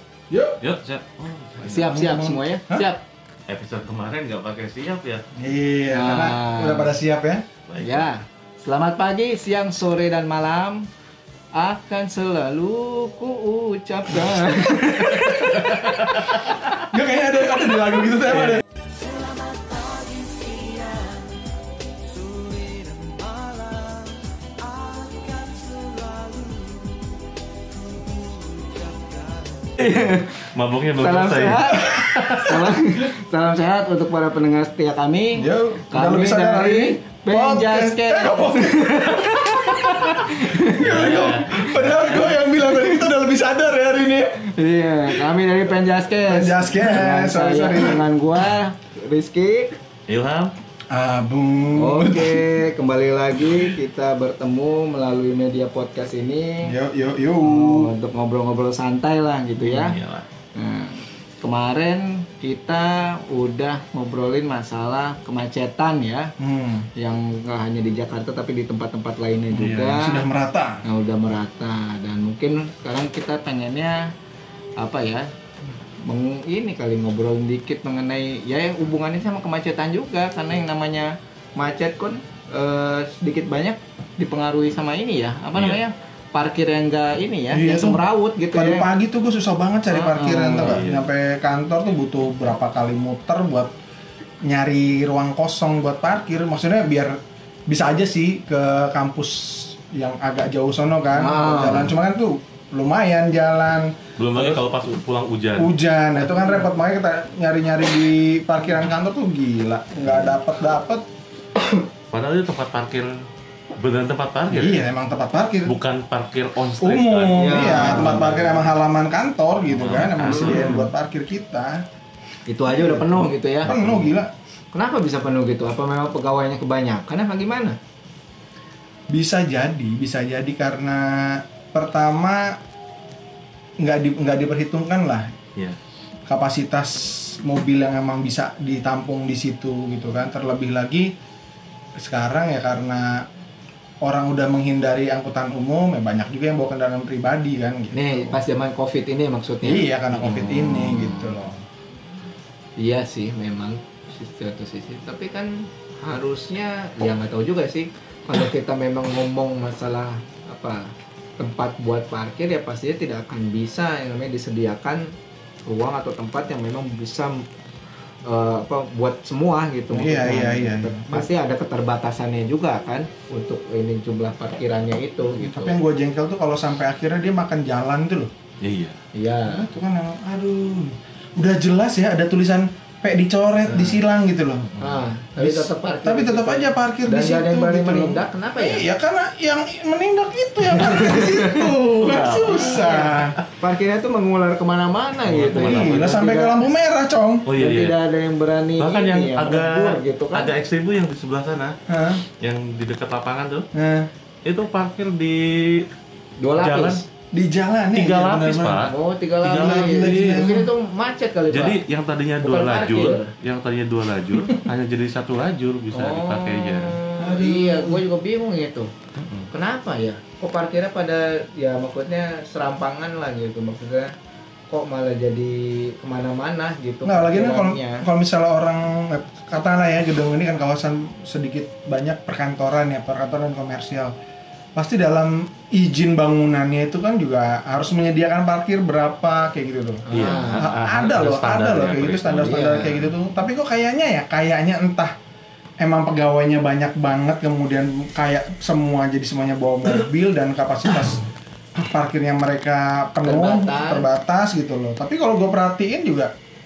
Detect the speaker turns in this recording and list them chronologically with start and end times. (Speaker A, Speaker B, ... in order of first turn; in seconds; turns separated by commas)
Speaker A: 0.3-0.6, Speaker B: 0.6-1.9, Speaker C: 1.6-3.0, Speaker A: 1.7-2.9, Speaker B: 3.5-5.2, Speaker A: 5.3-7.4, Speaker C: 5.9-6.9, Speaker B: 7.7-8.1, Speaker C: 7.8-10.9, Speaker C: 11.5-15.9, Speaker A: 15.4-15.9, Speaker B: 15.7-16.4, Speaker A: 16.7-18.6, Speaker C: 29.8-41.2, Speaker B: 30.5-32.6, Speaker A: 31.9-32.3, Speaker A: 35.4-39.5, Speaker A: 40.0-44.4, Speaker B: 40.8-42.4, Speaker C: 44.5-49.7, Speaker A: 46.3-48.0, Speaker B: 50.1-50.5, Speaker A: 50.9-52.4, Speaker C: 51.8-56.7, Speaker A: 56.6-57.9, Speaker C: 57.4-60.0, Speaker B: 59.6-60.3, Speaker C: 60.5-66.3, Speaker A: 66.4-66.9, Speaker C: 67.0-70.2, Speaker A: 69.5-70.8, Speaker C: 70.8-74.1, Speaker C: 74.8-75.2, Speaker C: 76.0-88.9, Speaker B: 85.5-85.8, Speaker A: 87.5-93.7, Speaker C: 89.9-90.8, Speaker B: 90.5-91.1, Speaker A: 94.4-104.7, Speaker C: 101.1-101.9, Speaker B: 104.2-105.7, Speaker A: 105.6-111.0, Speaker B: 110.0-110.3, Speaker B: 112.1-113.1, Speaker B: 113.8-114.8, Speaker A: 114.5-115.7, Speaker B: 115.6-118.7, Speaker A: 116.8-121.8, Speaker C: 117.3-118.6, Speaker B: 119.7-120.9, Speaker C: 120.2-120.8, Speaker C: 122.5-124.1, Speaker A: 122.7-124.3, Speaker B: 123.7-123.9, Speaker C: 124.7-127.8, Speaker A: 129.1-132.6, Speaker A: 133.8-135.3, Speaker A: 136.3-141.1, Speaker A: 142.0-143.2, Speaker A: 144.0-148.4, Speaker C: 147.9-151.4, Speaker A: 149.6-151.6, Speaker C: 152.8-165.1, Speaker C: 165.7-167.4, Speaker C: 168.2-175.8, Speaker A: 169.9-171.3, Speaker A: 175.4-178.3, Speaker B: 178.6-179.0, Speaker C: 179.1-179.7, Speaker A: 179.4-184.7, Speaker C: 183.7-184.0, Speaker C: 184.8-188.9, Speaker A: 185.4-193.4, Speaker C: 190.7-191.7, Speaker B: 192.0-193.4, Speaker C: 193.6-196.6, Speaker B: 195.2-196.1, Speaker A: 195.5-197.5, Speaker B: 197.4-197.9, Speaker C: 197.6-200.6, Speaker B: 198.8-201.8, Speaker A: 201.9-202.2, Speaker B: 202.4-203.7, Speaker A: 203.7-204.1, Speaker B: 204.4-205.9, Speaker C: 206.4-207.0, Speaker B: 206.6-207.0, Speaker A: 207.3-208.8, Speaker B: 207.9-210.5, Speaker C: 208.8-211.8, Speaker A: 209.5-210.7, Speaker B: 211.5-217.0, Speaker C: 212.4-213.3, Speaker C: 215.9-218.9, Speaker A: 217.2-218.0, Speaker B: 219.2-219.5, Speaker C: 219.5-224.1, Speaker C: 224.7-228.0, Speaker A: 227.0-234.1, Speaker A: 234.7-245.1, Speaker C: 240.1-240.7, Speaker B: 240.1-242.6, Speaker C: 242.4-243.1, Speaker A: 245.8-256.3, Speaker C: 253.2-254.1